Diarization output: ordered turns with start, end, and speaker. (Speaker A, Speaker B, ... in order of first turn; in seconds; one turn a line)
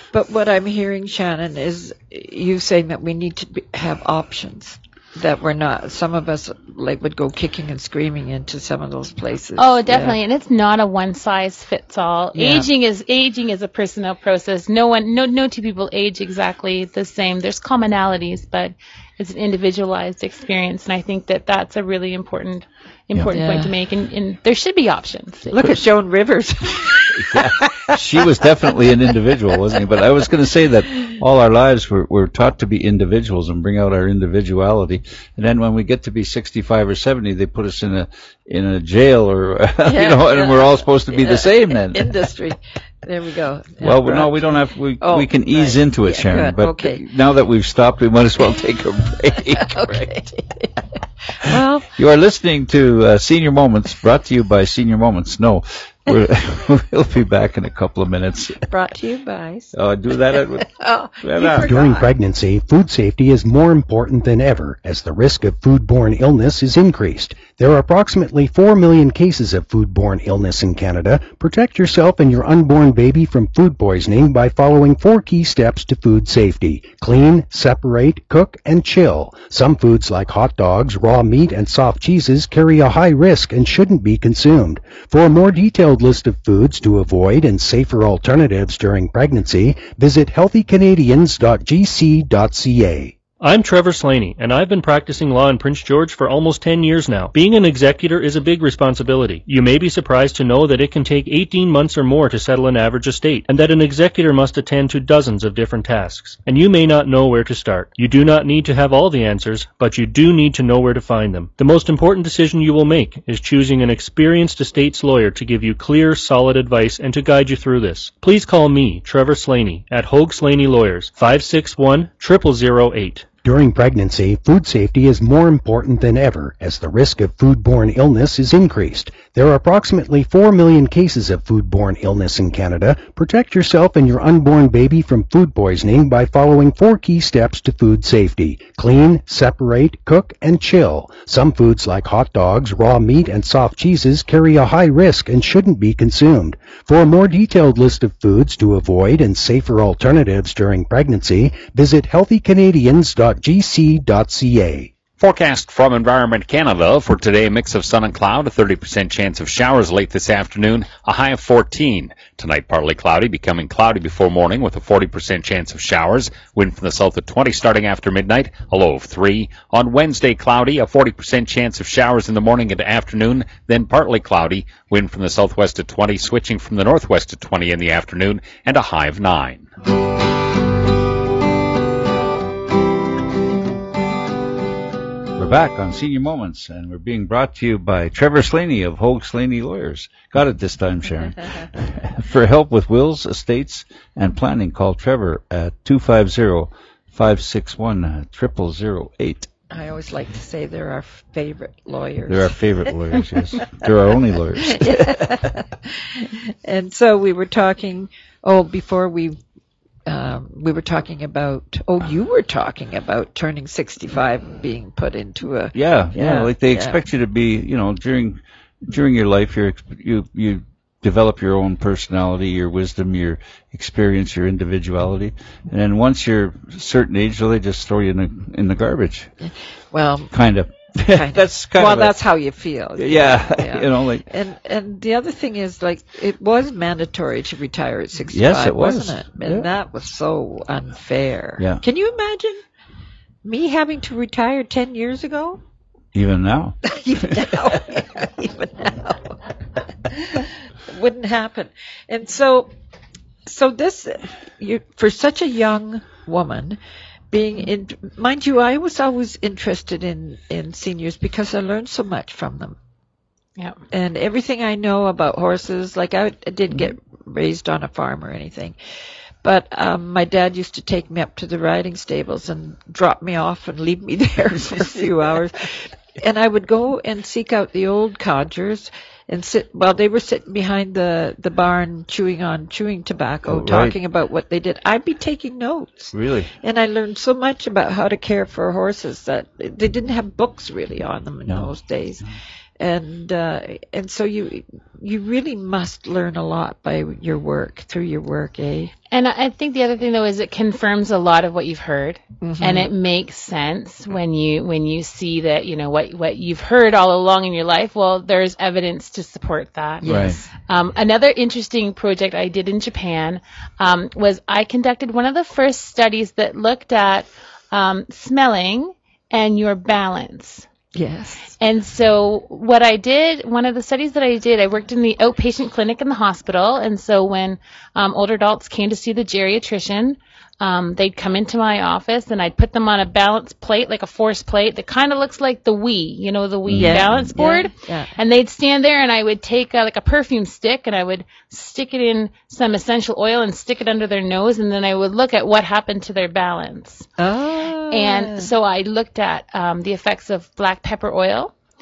Speaker A: 0.1-10.2
Speaker B: 9.6-25.6
Speaker A: 12.3-12.7
Speaker A: 23.3-23.7
Speaker A: 25.5-27.9
Speaker C: 27.1-42.3
Speaker A: 39.9-47.0
Speaker C: 43.8-50.2
Speaker A: 49.5-51.9
Speaker C: 52.0-58.7
Speaker A: 58.7-59.8
Speaker C: 59.7-61.9
Speaker A: 60.6-62.1
Speaker D: 61.6-93.2
Speaker E: 93.4-123.3
Speaker D: 123.4-154.9
Speaker F: 155.2-179.7
Speaker C: 185.4-199.5
Speaker A: 199.7-202.5
Speaker C: 202.3-205.4
Speaker A: 204.6-209.4
Speaker A: 210.1-217.0
Speaker C: 215.7-229.3
Speaker A: 229.4-230.3
Speaker C: 230.3-232.2
Speaker A: 231.1-242.6
Speaker C: 233.0-234.3
Speaker C: 238.2-239.7
Speaker C: 241.6-241.8
Speaker A: 243.4-245.6
Speaker C: 246.1-247.7
Speaker A: 246.9-249.5
Speaker A: 250.0-252.7
Speaker A: 253.4-256.8
Speaker A: 257.3-262.8
Speaker A: 263.9-268.8
Speaker A: 269.4-292.3
Speaker C: 283.5-284.0
Speaker C: 286.1-286.5
Speaker C: 291.5-291.7
Speaker A: 292.8-298.9
Speaker B: 299.1-320.6
Speaker A: 302.4-302.9
Speaker A: 310.0-310.5
Speaker C: 310.0-310.4
Speaker A: 320.9-321.5
Speaker B: 321.6-347.1
Speaker C: 336.7-337.3
Speaker A: 336.7-338.1
Speaker A: 347.2-348.5
Speaker B: 347.9-351.5